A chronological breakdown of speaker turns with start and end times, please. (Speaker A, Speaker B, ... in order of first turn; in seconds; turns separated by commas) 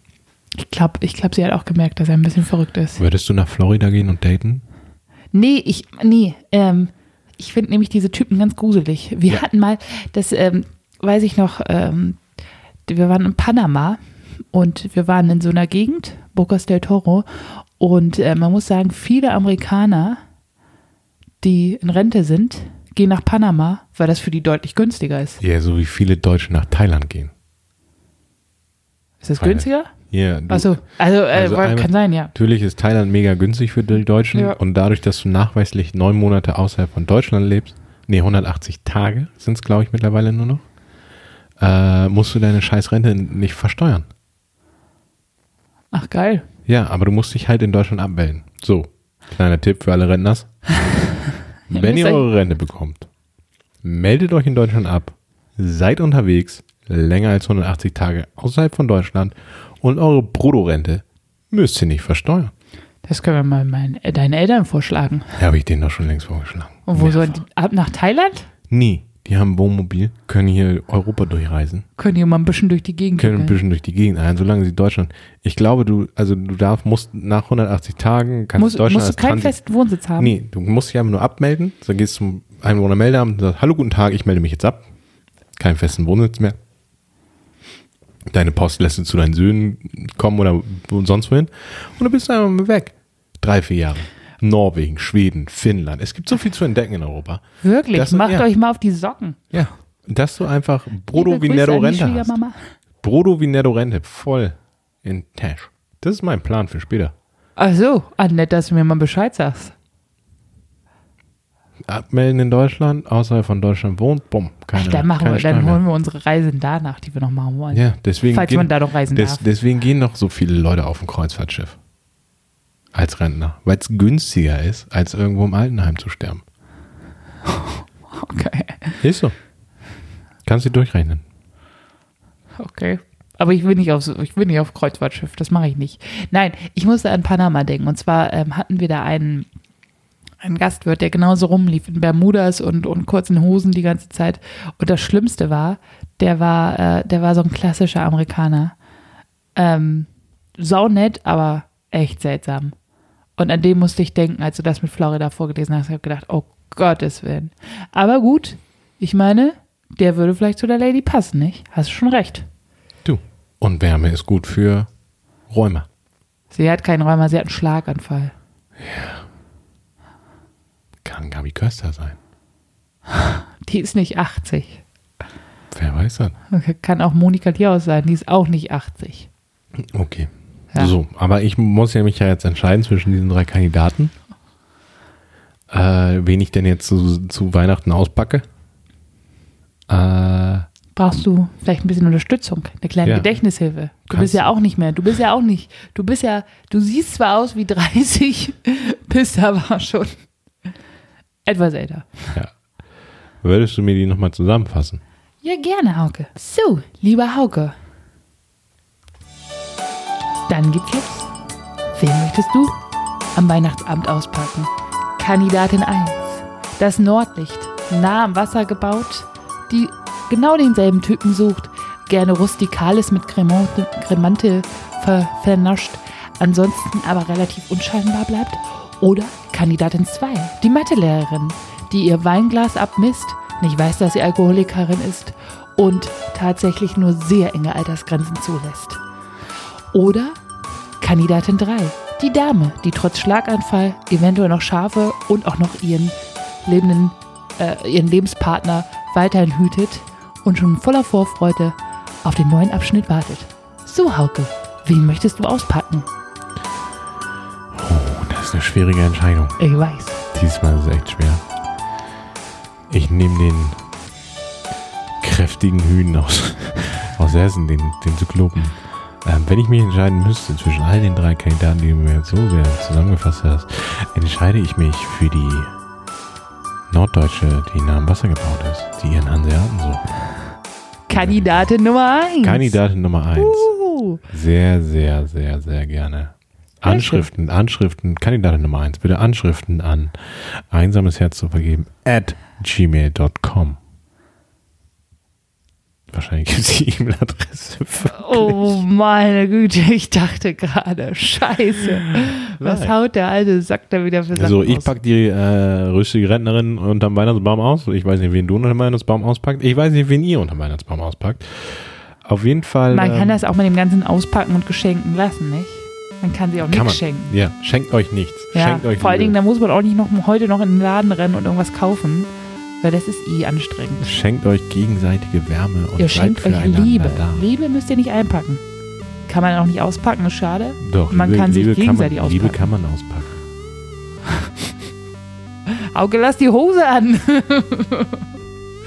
Speaker A: 0.5-3.0, Speaker B: 3.0-4.6, Speaker A: 5.3-12.2, Speaker A: 12.9-14.0, Speaker A: 14.5-20.2, Speaker A: 21.4-25.4, Speaker B: 25.4-27.3, Speaker A: 29.2-29.9, Speaker B: 29.4-40.6, Speaker A: 30.5-32.3, Speaker A: 34.3-34.6, Speaker B: 41.6-44.1, Speaker A: 45.9-46.4, Speaker B: 46.7-50.5, Speaker A: 51.7-52.2, Speaker B: 51.7-53.1, Speaker B: 53.8-62.5, Speaker A: 63.0-65.3, Speaker B: 65.4-67.4, Speaker A: 66.8-68.5, Speaker B: 68.7-71.8, Speaker A: 72.0-73.6, Speaker B: 73.2-79.5, Speaker A: 78.5-80.3, Speaker B: 80.2-84.8, Speaker B: 85.5-86.6, Speaker B: 88.3-97.4, Speaker A: 97.6-99.4, Speaker B: 97.9-98.5, Speaker B: 99.5-102.3, Speaker A: 101.1-102.6, Speaker B: 103.0-107.1, Speaker A: 107.6-109.7, Speaker B: 111.8-115.8, Speaker A: 114.7-119.4, Speaker B: 117.7-121.8, Speaker B: 122.9-126.4, Speaker A: 127.5-129.0, Speaker B: 129.0-129.3, Speaker B: 130.4-131.2, Speaker A: 132.6-139.5, Speaker A: 140.4-148.8, Speaker A: 149.5-152.7, Speaker A: 153.4-162.5, Speaker B: 163.0-164.9, Speaker B: 165.5-165.9, Speaker A: 166.5-168.3, Speaker B: 168.8-169.2, Speaker B: 171.0-172.2, Speaker A: 173.1-174.8, Speaker B: 175.7-176.3, Speaker A: 176.5-179.3, Speaker B: 179.8-184.1, Speaker B: 185.7-188.4, Speaker B: 189.9-190.7, Speaker A: 190.9-200.1, Speaker B: 193.0-193.3, Speaker B: 194.1-194.5, Speaker A: 201.4-202.3, Speaker B: 203.4-205.0, Speaker A: 205.4-207.7, Speaker A: 210.5-211.3, Speaker A: 211.9-212.7, Speaker A: 213.3-239.0, Speaker A: 239.9-240.4, Speaker A: 241.0-256.1, Speaker B: 257.7-259.6, Speaker A: 259.6-260.2, Speaker B: 260.3-261.4, Speaker B: 262.9-263.8, Speaker B: 265.2-275.7, Speaker B: 276.9-280.1, Speaker A: 281.1-282.8, Speaker B: 281.1-281.7, Speaker B: 282.4-283.7, Speaker A: 283.4-284.2, Speaker B: 284.3-293.8, Speaker A: 286.8-287.3, Speaker B: 296.1-298.8, Speaker A: 298.1-304.9, Speaker B: 302.4-302.9, Speaker B: 304.3-313.4, Speaker A: 312.9-317.3, Speaker B: 316.7-319.4, Speaker A: 318.5-322.3, Speaker A: 322.8-324.1, Speaker B: 324.0-327.4, Speaker A: 326.0-328.6, Speaker A: 329.3-332.6, Speaker B: 330.8-333.3, Speaker A: 335.7-338.2